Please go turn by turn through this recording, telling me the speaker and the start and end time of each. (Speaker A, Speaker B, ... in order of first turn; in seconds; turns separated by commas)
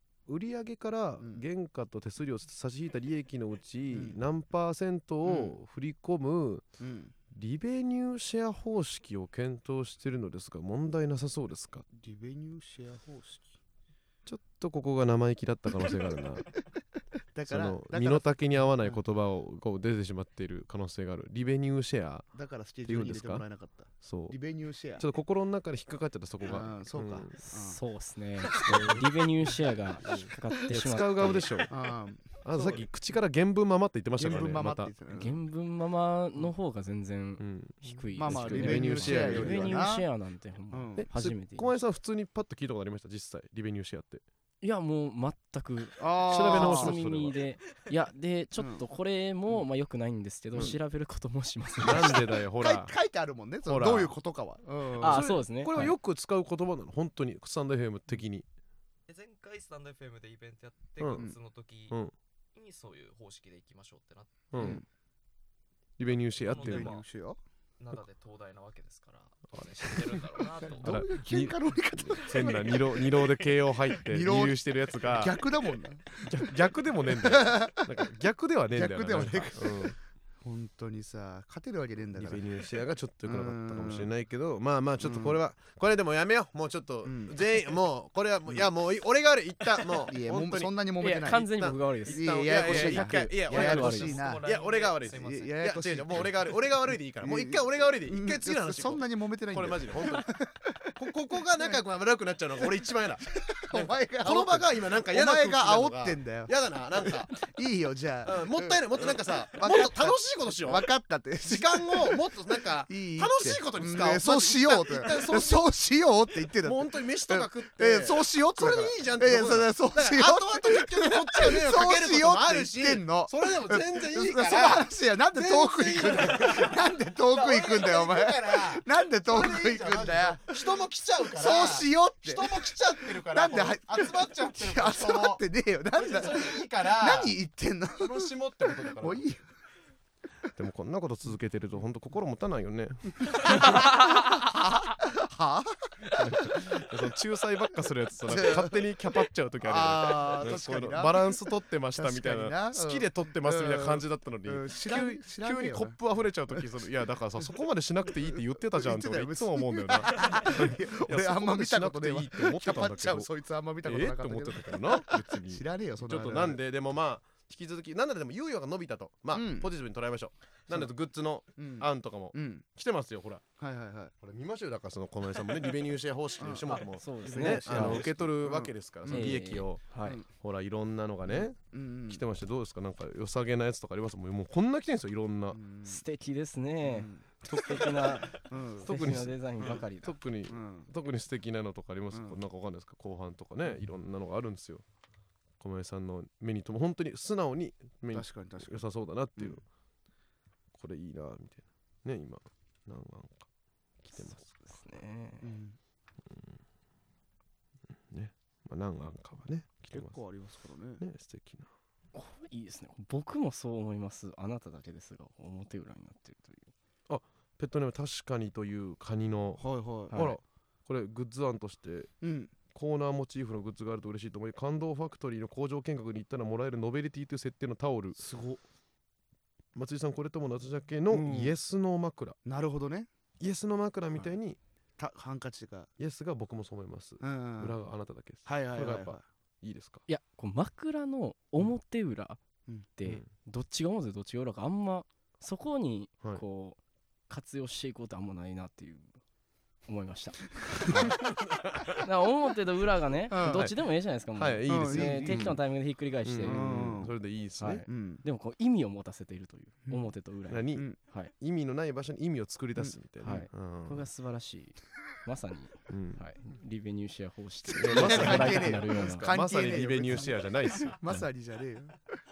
Speaker A: 0.3-6.7, Speaker B: 3.9-4.2, Speaker B: 5.2-5.5, Speaker B: 6.8-7.1, Speaker A: 7.3-11.8, Speaker B: 11.9-13.6, Speaker A: 14.2-16.5, Speaker B: 17.3-19.0, Speaker A: 17.5-22.3, Speaker B: 22.3-25.0, Speaker A: 22.9-23.4, Speaker A: 24.0-24.4, Speaker A: 25.0-27.3, Speaker B: 26.4-27.8, Speaker C: 27.4-31.6, Speaker B: 28.6-28.9, Speaker A: 28.6-29.0, Speaker A: 30.0-31.7, Speaker B: 31.7-32.9, Speaker A: 32.4-34.9, Speaker B: 34.2-35.4, Speaker C: 35.1-41.7, Speaker A: 37.4-39.8, Speaker B: 38.1-40.1, Speaker B: 40.7-41.1, Speaker A: 41.0-44.2, Speaker C: 44.6-52.3, Speaker B: 46.0-47.0, Speaker A: 46.3-47.4, Speaker B: 48.6-48.8, Speaker B: 50.5-50.8, Speaker A: 51.8-52.9, Speaker B: 51.9-55.2, Speaker A: 53.6-54.1, Speaker C: 55.0-55.9, Speaker A: 55.0-58.5, Speaker D: 59.1-62.0, Speaker A: 61.0-61.3, Speaker D: 62.5-64.7, Speaker A: 64.5-64.8, Speaker B: 64.6-64.8, Speaker A: 66.0-66.9, Speaker D: 66.4-67.0, Speaker B: 66.5-67.4, Speaker D: 67.8-71.0, Speaker A: 69.5-75.4, Speaker B: 70.6-73.2, Speaker B: 73.9-76.5, Speaker A: 76.2-80.0, Speaker B: 77.1-77.9, Speaker B: 78.7-82.4, Speaker A: 82.1-90.7, Speaker B: 83.2-84.1, Speaker B: 85.0-85.4, Speaker B: 87.0-87.4, Speaker B: 89.9-94.5, Speaker C: 91.0-94.2, Speaker A: 91.4-100.4, Speaker D: 93.5-95.7, Speaker B: 95.1-96.4, Speaker B: 97.2-100.9, Speaker A: 100.9-107.4, Speaker B: 103.3-112.3, Speaker A: 108.2-110.9, Speaker A: 111.4-115.7, Speaker B: 112.8-130.6, Speaker A: 116.6-135.4, Speaker B: 131.3-139.4, Speaker A: 135.9-137.3, Speaker A: 138.0-139.2, Speaker A: 140.6-143.8, Speaker B: 143.3-146.6, Speaker A: 146.1-163.3, Speaker B: 148.3-148.8, Speaker B: 149.6-151.4, Speaker B: 151.9-156.0, Speaker B: 158.2-166.6, Speaker A: 163.8-173.4, Speaker B: 169.3-169.7, Speaker B: 171.6-172.6, Speaker B: 173.6-174.1, Speaker A: 174.2-185.6, Speaker B: 176.4-179.4, Speaker C: 176.7-178.1, Speaker C: 179.1-180.2, Speaker B: 181.3-182.2, Speaker B: 185.5-186.0, Speaker C: 185.8-190.2, Speaker B: 186.8-187.2, Speaker A: 187.4-188.1, Speaker B: 188.4-188.9, Speaker A: 188.8-194.8, Speaker B: 190.5-190.9, Speaker B: 192.1-192.4, Speaker A: 195.6-199.6, Speaker B: 198.1-198.8, Speaker A: 200.7-203.5, Speaker C: 204.1-205.5, Speaker A: 204.1-204.5, Speaker B: 205.4-205.8, Speaker A: 206.2-206.6, Speaker A: 208.1-210.2, Speaker B: 209.9-211.0, Speaker A: 211.0-211.7, Speaker C: 212.1-216.7, Speaker A: 217.1-222.1, Speaker B: 219.6-220.2, Speaker B: 222.2-222.5, Speaker A: 222.7-228.2, Speaker B: 228.2-228.6, Speaker A: 229.7-232.3, Speaker B: 231.1-231.6, Speaker B: 232.4-233.1, Speaker A: 233.4-234.6, Speaker B: 235.0-235.9, Speaker A: 236.0-240.0, Speaker B: 237.2-237.7, Speaker B: 238.4-239.2, Speaker C: 240.1-242.4, Speaker C: 243.0-246.8, Speaker C: 247.3-249.1, Speaker C: 249.9-251.3, Speaker B: 250.7-251.1, Speaker A: 251.5-252.0, Speaker C: 251.9-256.8, Speaker B: 253.3-253.7, Speaker A: 253.4-253.8, Speaker A: 254.3-255.6, Speaker B: 254.7-255.4, Speaker A: 256.2-257.9, Speaker B: 256.4-257.1, Speaker C: 257.6-261.3, Speaker B: 257.9-258.2, Speaker A: 260.5-264.1, Speaker C: 263.2-269.3, Speaker A: 265.9-266.2, Speaker B: 267.7-272.2, Speaker A: 267.7-271.0